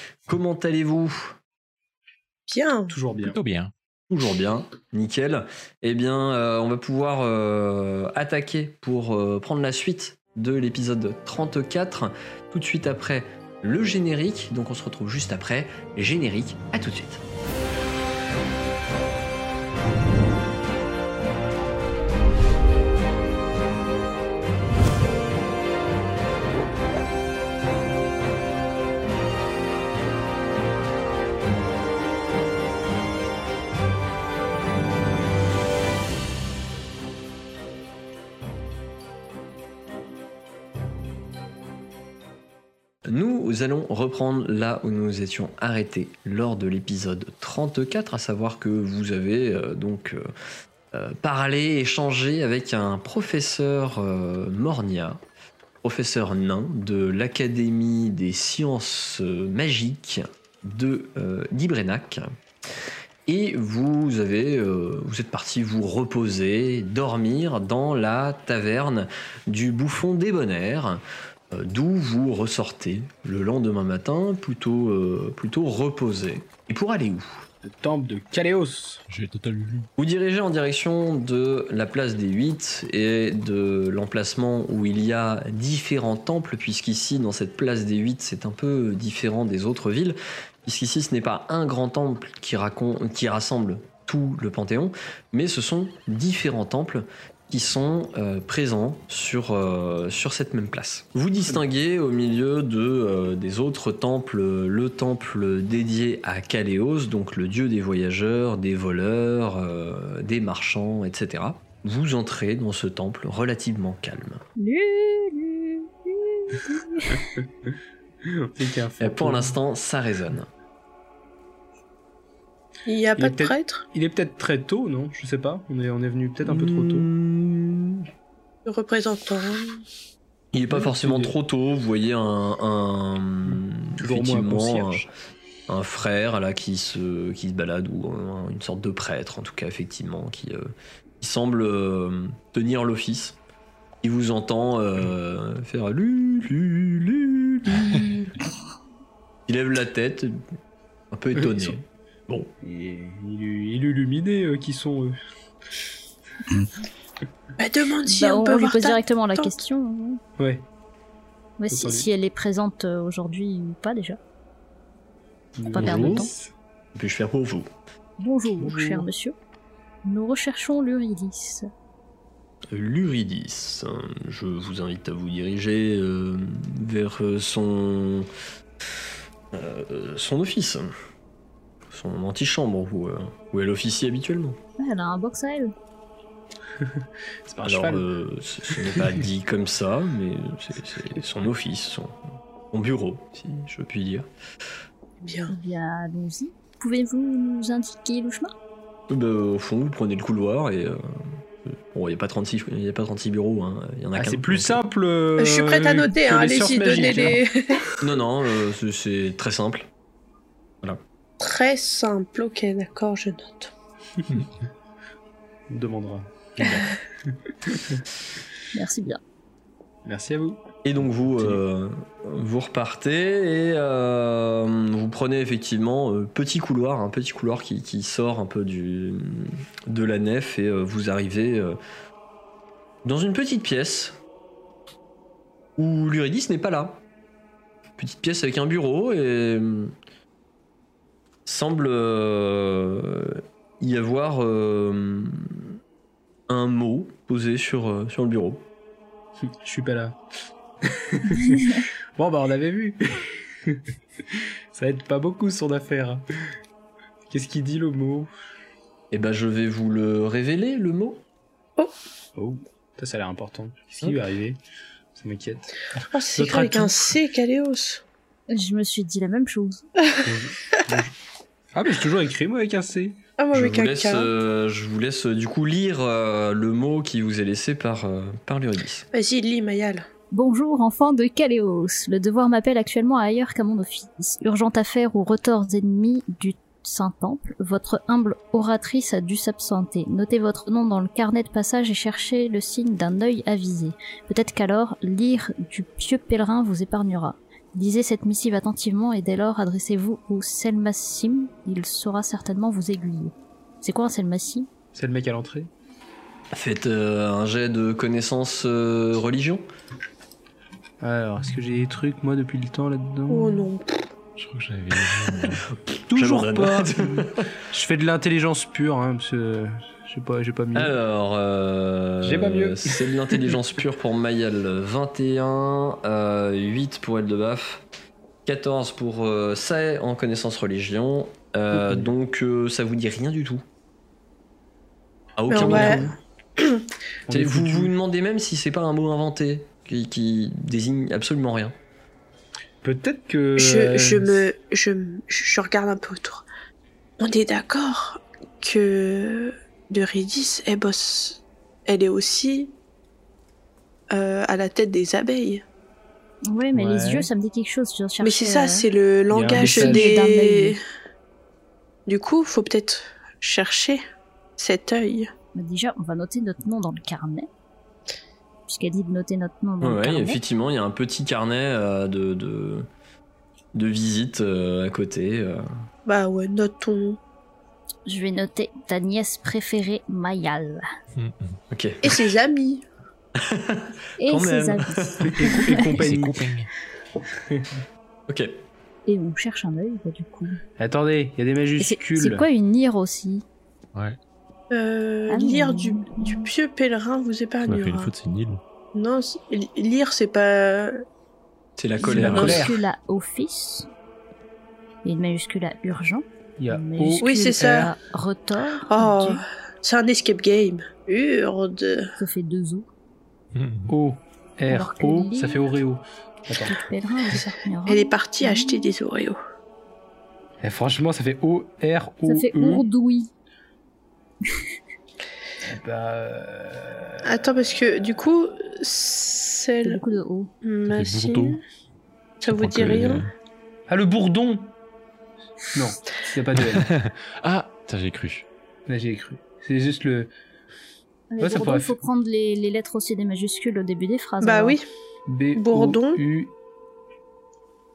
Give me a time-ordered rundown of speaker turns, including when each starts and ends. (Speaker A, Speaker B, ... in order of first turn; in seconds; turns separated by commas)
Speaker A: 0.3-1.4, Speaker B: 2.5-2.9, Speaker C: 2.9-3.4, Speaker D: 3.2-3.7, Speaker A: 4.1-17.2, Speaker A: 43.1-50.2, Speaker A: 50.9-55.2, Speaker A: 55.8-62.3, Speaker A: 63.3-77.4, Speaker C: 77.6-79.0, Speaker D: 79.1-79.9, Speaker A: 80.0-114.4, Speaker E: 114.5-117.2, Speaker C: 118.2-119.5, Speaker A: 119.0-120.5, Speaker B: 122.9-123.8, Speaker C: 123.2-127.1, Speaker A: 126.5-128.0, Speaker B: 128.7-129.7, Speaker A: 130.5-135.1, Speaker C: 130.7-131.3, Speaker C: 134.0-135.1, Speaker A: 135.7-143.4, Speaker A: 144.0-148.2, Speaker A: 149.5-150.4, Speaker A: 151.1-152.5, Speaker C: 151.4-151.7, Speaker C: 152.6-155.2, Speaker B: 157.6-159.6, Speaker E: 158.1-160.2, Speaker C: 160.4-160.7, Speaker E: 161.6-164.2, Speaker C: 161.7-162.1, Speaker C: 165.6-166.5, Speaker E: 165.7-166.3, Speaker A: 165.8-166.3, Speaker A: 166.9-167.7, Speaker E: 168.2-169.3, Speaker C: 168.6-169.1, Speaker E: 170.0-171.7, Speaker A: 172.7-178.3, Speaker A: 179.5-180.9, Speaker A: 181.9-184.6, Speaker E: 184.8-185.7, Speaker C: 186.8-188.0, Speaker A: 187.6-192.2, Speaker C: 188.7-189.1, Speaker A: 192.7-194.2, Speaker B: 195.2-195.5, Speaker E: 195.5-198.5, Speaker A: 199.1-201.0, Speaker A: 201.7-204.8, Speaker C: 204.1-207.4, Speaker B: 205.4-207.8, Speaker A: 208.0-209.9, Speaker B: 211.4-213.7, Speaker C: 215.7-216.7, Speaker C: 217.3-218.0, Speaker E: 218.7-219.2, Speaker C: 220.1-220.6, Speaker A: 220.8-231.8, Speaker A: 233.0-234.2, Speaker A: 235.8-237.0, Speaker A: 238.0-239.9, Speaker A: 241.4-245.8, Speaker A: 246.5-248.6, Speaker C: 249.4-250.2, Speaker C: 250.8-256.2, Speaker E: 251.3-251.8, Speaker C: 257.3-258.3, Speaker A: 259.1-261.2, Speaker C: 262.4-264.6, Speaker C: 265.1-267.1, Speaker B: 266.0-268.0, Speaker E: 268.5-269.8, Speaker C: 270.2-271.1, Speaker C: 271.7-273.2, Speaker B: 273.4-274.3, Speaker A: 273.5-279.1, Speaker B: 279.1-280.1, Speaker E: 280.3-304.7, Speaker C: 304.9-305.7, Speaker A: 306.5-309.6, Speaker C: 311.0-313.7, Speaker B: 313.3-314.0, Speaker D: 314.4-315.6, Speaker A: 315.1-317.5, Speaker C: 316.1-320.9, Speaker A: 320.7-327.9, Speaker C: 322.2-323.4, Speaker A: 328.4-333.6, Speaker C: 331.7-332.1, Speaker A: 335.4-336.1, Speaker B: 335.5-336.8, Speaker C: 335.5-336.1, Speaker C: 337.3-337.9, Speaker A: 337.3-341.7, Speaker C: 342.8-344.4, Speaker B: 343.6-346.4, Speaker B: 347.2-352.7, Speaker B: 354.1-355.6, Speaker E: 356.5-358.9, Speaker C: 356.7-357.3, Speaker B: 358.2-360.8, Speaker C: 359.3-360.1, Speaker E: 359.5-360.8, Speaker B: 362.1-364.0, Speaker B: 364.6-365.3, Speaker E: 365.5-367.5, Speaker E: 368.7-370.4, Speaker A: 369.8-372.9, Speaker A: 373.7-375.7, Speaker B: 376.1-377.2, Speaker E: 378.1-380.8, Speaker D: 381.1-381.6, Speaker A: 381.7-382.1, Speaker B: 382.0-382.8, Speaker A: 383.4-385.7, Speaker E: 384.2-386.0, Speaker C: 385.2-386.5, Speaker D: 385.9-386.7, Speaker C: 387.5-387.8, Speaker A: 388.3-388.5, Speaker E: 389.1-390.6, Speaker C: 390.8-392.4, Speaker E: 391.8-393.4, Speaker B: 394.7-398.1, Speaker E: 395.3-396.5, Speaker D: 397.6-398.6, Speaker B: 398.9-401.0, Speaker A: 401.8-402.7, Speaker C: 402.0-402.8, Speaker E: 402.0-403.9, Speaker E: 405.0-409.4, Speaker C: 406.6-407.8, Speaker B: 407.2-407.9, Speaker B: 408.9-412.1, Speaker E: 412.2-412.9, Speaker D: 413.5-413.9, Speaker C: 413.9-416.8, Speaker E: 414.7-415.7, Speaker E: 416.6-418.9, Speaker B: 417.3-419.4, Speaker C: 420.6-422.9, Speaker E: 422.3-423.3, Speaker C: 425.6-427.4, Speaker B: 427.2-430.0, Speaker E: 429.8-430.5, Speaker B: 430.6-431.6, Speaker D: 430.9-431.6, Speaker B: 432.4-433.2, Speaker D: 432.4-433.3, Speaker C: 433.9-434.7, Speaker C: 435.7-436.9, Speaker D: 436.6-438.4, Speaker C: 438.9-440.3, Speaker E: 441.3-444.8, Speaker C: 441.4-441.9, Speaker B: 444.4-444.8, Speaker C: 445.3-446.5, Speaker B: 445.6-446.2